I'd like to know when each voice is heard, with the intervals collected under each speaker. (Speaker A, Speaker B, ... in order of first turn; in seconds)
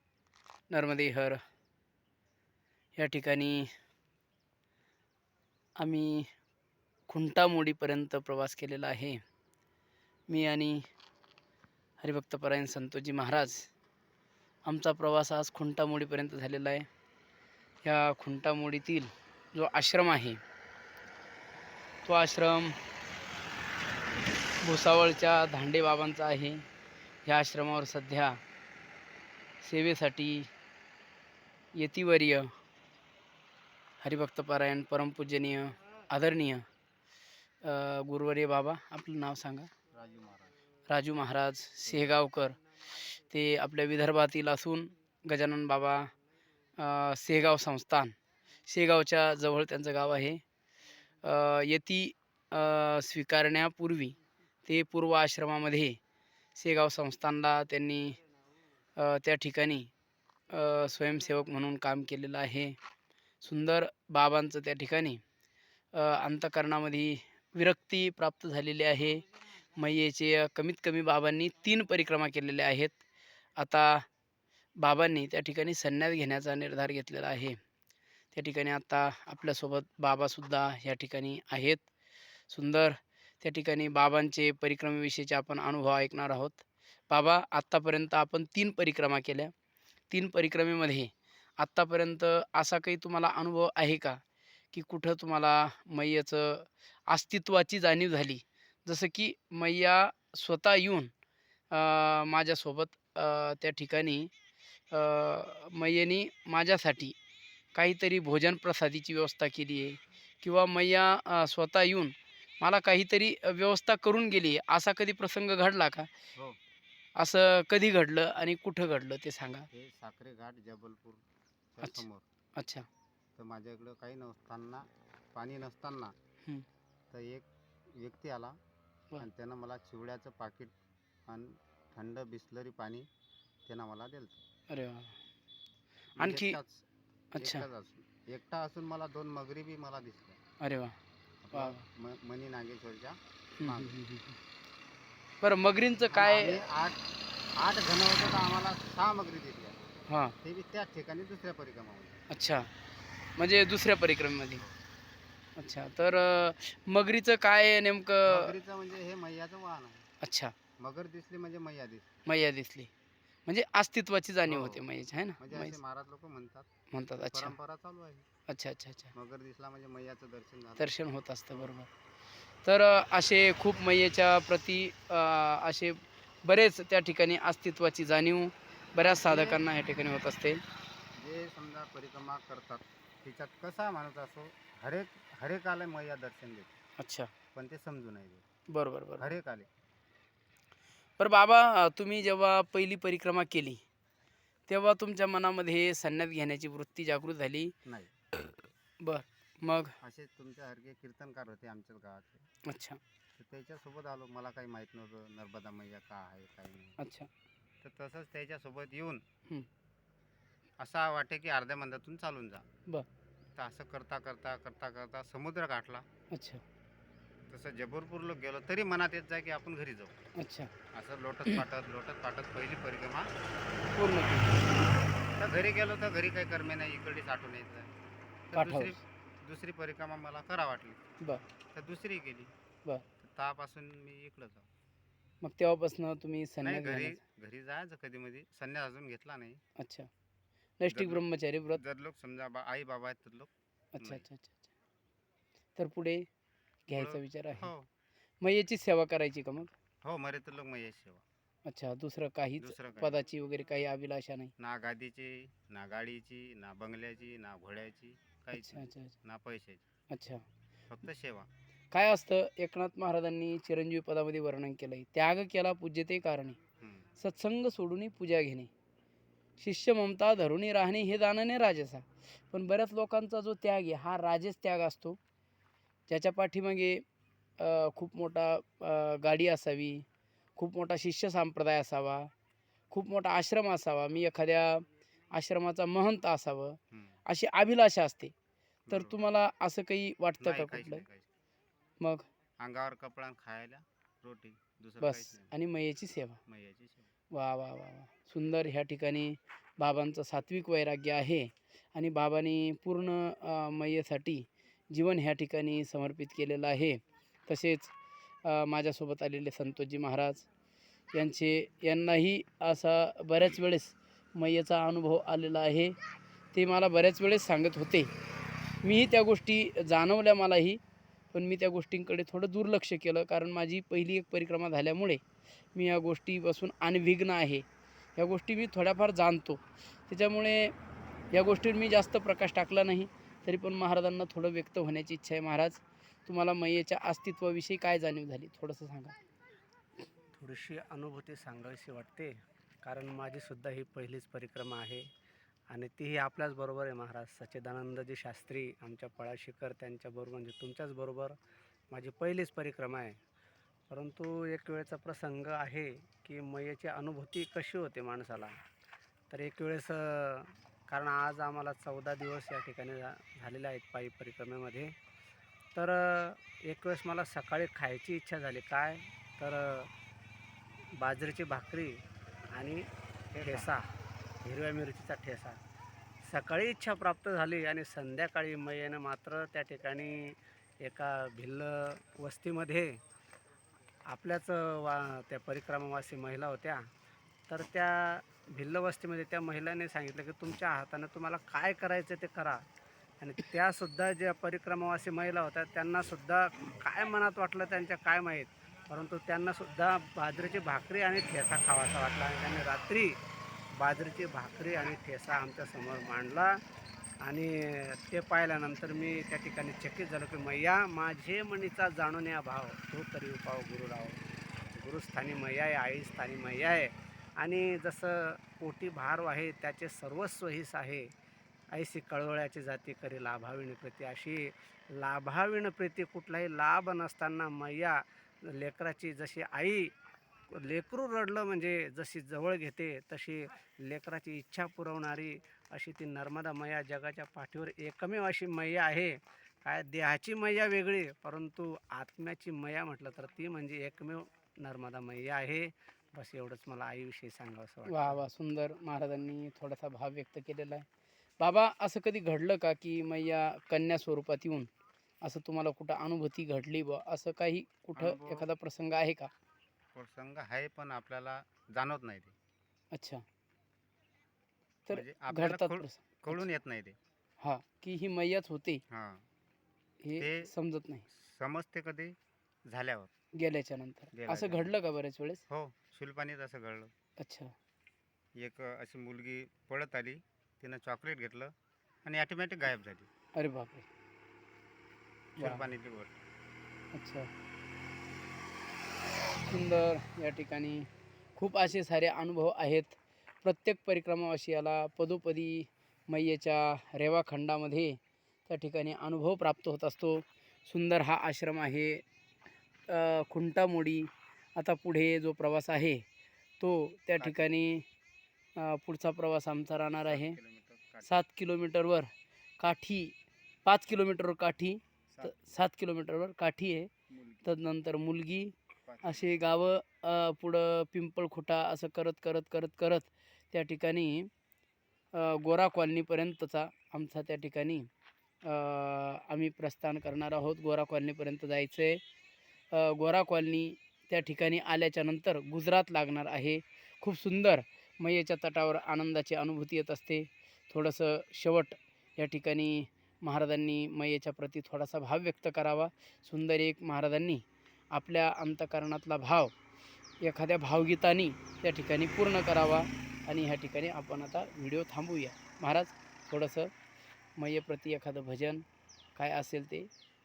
Speaker A: 0.7-1.4, 3.0-3.7, 5.8-6.3, 7.1-9.2, 10.3-10.8, 12.0-13.7, 14.6-16.9, 17.8-20.4, 22.0-22.8, 24.6-26.6, 27.2-28.4, 29.6-30.5, 31.8-32.5, 34.0-36.6, 37.6-39.7, 40.9-42.6, 43.1-46.1, 46.8-48.1, 48.6-50.4, 51.2-56.0, 56.5-58.2, 59.0-59.9, 60.5-62.8, 63.4-65.2, 65.9-73.0, 73.6-74.0, 74.8-77.6, 78.3-81.9, 82.5-89.5, 90.1-94.2, 94.7-101.1, 101.7-104.3, 104.9-107.2, 107.7-116.1, 117.2-119.7, 122.6-122.9, 134.7-135.2, 136.2-136.6, 137.3-137.6, 140.6-140.9, 141.5-141.8, 143.6-144.4, 145.4-146.6, 150.1-150.3, 152.3-152.7, 153.4-154.6, 155.6-158.5, 160.2-160.5, 162.2-162.9, 163.4-165.8, 166.9-167.5, 168.5-169.1, 170.8-171.9, 172.6-180.6, 187.0-187.3, 188.7-189.3, 191.2-193.8, 194.7-197.7, 199.0-199.9, 202.7-203.0, 207.0-207.3, 216.3-216.6, 220.4-220.7, 223.9-224.7, 228.5-229.0, 235.4-237.2, 239.8-240.1, 240.8-241.8, 243.9-244.7, 245.8-246.3, 246.9-247.7, 248.4-249.7, 251.7-254.5, 258.5-259.1, 260.1-260.4, 261.9-266.6, 267.2-268.7, 269.6-275.2, 276.1-277.0, 277.6-280.1, 280.6-282.3, 282.9-288.3, 288.9-291.0, 292.0-292.3, 295.0-296.4, 297.3-307.9, 308.4-310.4, 311.1-315.9, 316.5-318.1, 318.8-320.8, 321.3-325.2, 325.7-327.6, 328.1-330.7, 331.3-339.1, 447.9-450.9, 451.4-454.7, 455.2-459.3, 462.9-463.2, 464.9-466.4, 467.4-468.8, 470.0-471.0, 473.4-475.4, 477.2-477.5, 483.4-483.9, 485.4-485.6, 486.9-487.3, 489.5-502.0, 502.9-506.0, 506.6-507.8, 508.6-510.4, 511.1-516.9, 517.4-524.3, 525.1-527.9, 528.4-532.0, 532.7-549.5, 550.2-556.7, 557.4-558.6, 559.1-559.9
Speaker B: 39.9-40.5, 41.8-42.1, 119.7-121.2, 121.7-122.2, 123.3-126.1, 127.1-128.6, 129.2-130.7, 131.3-133.1, 133.7-134.4, 136.2-136.8, 137.4-140.4, 141.4-144.0, 146.1-147.0, 147.6-149.8, 150.4-152.2, 158.2-160.1, 160.8-162.2, 164.5-164.8, 165.4-166.7, 167.3-168.2, 169.1-170.9, 179.1-179.6, 181.2-186.7, 187.5-188.4, 189.2-189.7, 200.0-202.4, 203.3-207.0, 207.8-209.2, 210.8-212.6, 213.6-216.0, 217.5-220.2, 220.9-223.3, 225.3-227.9, 228.5-231.0, 231.7-232.5, 233.2-234.7, 236.6-239.6, 240.9-241.2, 241.8-244.2, 246.9-247.9, 250.0-251.2, 252.6-253.2, 254.6-259.8, 260.9-261.5, 266.8-267.1, 288.9-289.2, 290.4-291.3, 292.6-295.5, 296.5-297.1, 457.9-458.4, 459.9-462.3, 464.9-467.0, 468.9-469.2, 470.2-470.5, 471.1-472.1, 472.7-473.1, 474.1-474.7, 475.5-476.9, 478.4-481.5, 482.0-483.1, 485.4-486.2, 507.2-507.5, 510.1-511.1, 515.1-515.4, 517.1-517.5, 518.8-519.5
Speaker C: 340.3-345.1, 345.7-351.4, 351.9-353.2, 353.9-358.6, 359.3-364.9, 365.7-369.9, 370.9-372.0, 372.5-373.9, 374.4-375.6, 376.2-383.0, 384.1-386.8, 387.5-392.6, 393.2-403.2, 403.7-406.6, 407.2-414.2, 414.7-421.1, 421.7-429.9, 430.5-448.2